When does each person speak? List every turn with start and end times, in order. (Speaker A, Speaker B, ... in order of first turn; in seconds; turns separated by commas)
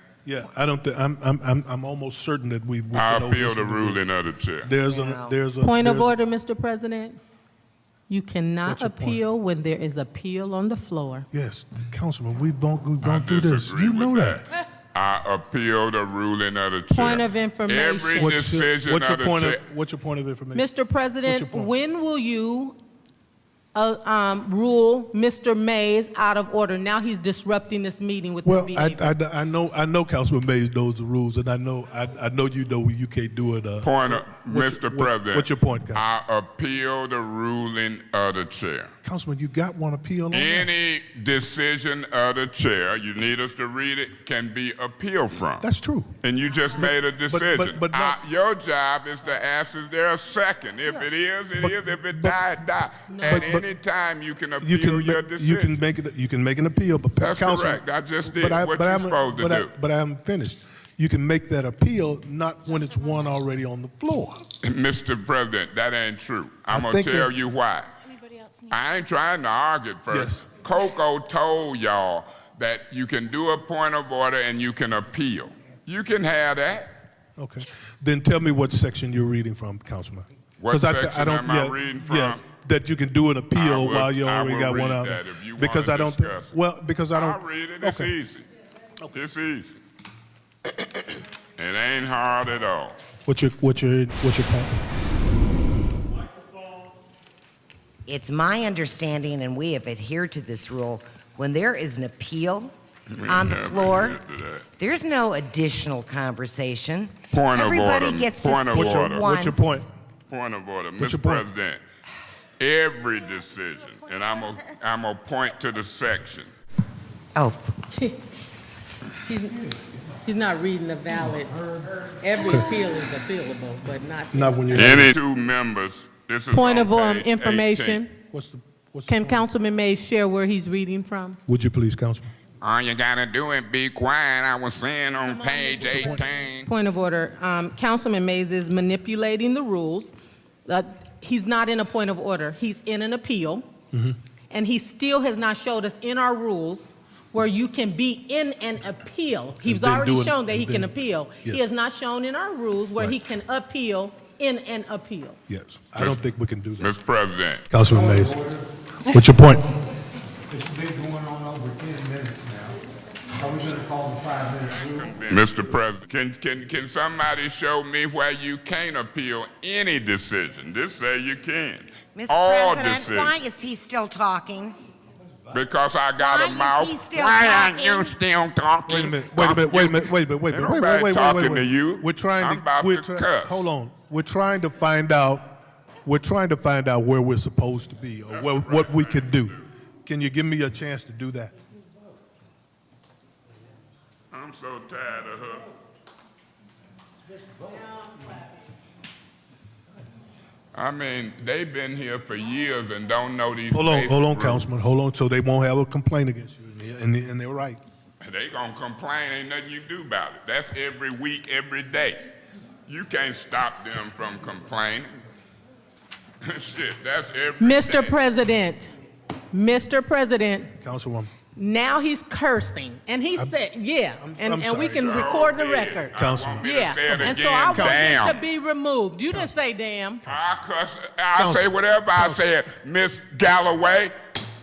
Speaker A: 0.2-4.0, Speaker B: 2.9-4.7, Speaker A: 4.6-6.1, Speaker C: 4.9-5.3, Speaker D: 5.6-7.2, Speaker D: 8.1-11.3, Speaker A: 8.6-9.2, Speaker A: 11.3-14.4, Speaker B: 13.0-19.6, Speaker D: 16.9-18.4, Speaker A: 18.2-20.7, Speaker D: 20.5-22.8, Speaker A: 21.2-21.7, Speaker D: 23.7-29.1, Speaker A: 28.4-36.1, Speaker B: 33.8-38.9, Speaker A: 39.0-40.7, Speaker B: 40.3-45.6, Speaker A: 45.6-46.1, Speaker B: 46.2-55.8, Speaker A: 46.8-48.2, Speaker A: 50.9-52.4, Speaker D: 53.1-53.5, Speaker A: 53.2-53.7, Speaker A: 54.6-64.4, Speaker B: 57.2-59.7, Speaker B: 64.6-67.9, Speaker A: 66.7-67.3, Speaker B: 68.6-76.9, Speaker A: 70.1-70.4, Speaker A: 77.4-88.1, Speaker B: 80.6-82.4, Speaker B: 83.5-86.5, Speaker B: 87.1-88.5, Speaker B: 89.1-89.7, Speaker B: 91.6-93.0, Speaker A: 93.2-94.8, Speaker C: 98.0-102.7, Speaker B: 103.1-104.7, Speaker C: 103.2-104.2, Speaker C: 104.8-109.8, Speaker B: 107.3-109.2, Speaker A: 108.7-109.8, Speaker B: 110.3-111.8, Speaker A: 111.0-111.5, Speaker B: 112.6-116.5, Speaker C: 117.3-117.8, Speaker D: 117.9-118.2, Speaker D: 119.1-119.6, Speaker D: 120.2-124.9, Speaker A: 122.4-122.7, Speaker A: 124.3-125.2, Speaker B: 124.7-128.0, Speaker D: 126.5-128.1, Speaker A: 128.3-129.5, Speaker D: 129.1-131.4, Speaker A: 131.5-132.3, Speaker B: 132.6-136.7, Speaker D: 135.2-140.1, Speaker A: 135.9-136.2, Speaker D: 140.7-143.7, Speaker A: 143.9-144.2, Speaker D: 144.5-155.4, Speaker A: 149.6-150.9, Speaker A: 153.0-153.2, Speaker A: 155.5-156.9, Speaker B: 156.0-156.2, Speaker B: 156.8-157.6, Speaker A: 157.7-158.4, Speaker E: 158.0-158.6, Speaker A: 159.1-159.6, Speaker E: 160.5-162.8, Speaker E: 163.4-165.1, Speaker A: 163.6-164.2, Speaker B: 164.6-173.4, Speaker C: 172.1-174.8, Speaker B: 175.5-183.7, Speaker C: 176.2-178.2, Speaker A: 178.9-191.5, Speaker B: 188.3-189.6, Speaker B: 194.3-195.7, Speaker B: 200.7-204.7, Speaker A: 203.7-207.8, Speaker B: 208.2-212.2, Speaker B: 212.8-215.1, Speaker B: 216.4-218.2, Speaker D: 217.6-218.9, Speaker D: 219.5-220.7, Speaker A: 220.8-221.3, Speaker D: 221.5-230.2, Speaker A: 224.2-225.2, Speaker B: 224.9-228.4, Speaker A: 226.1-228.2, Speaker B: 230.2-234.1, Speaker A: 231.3-232.4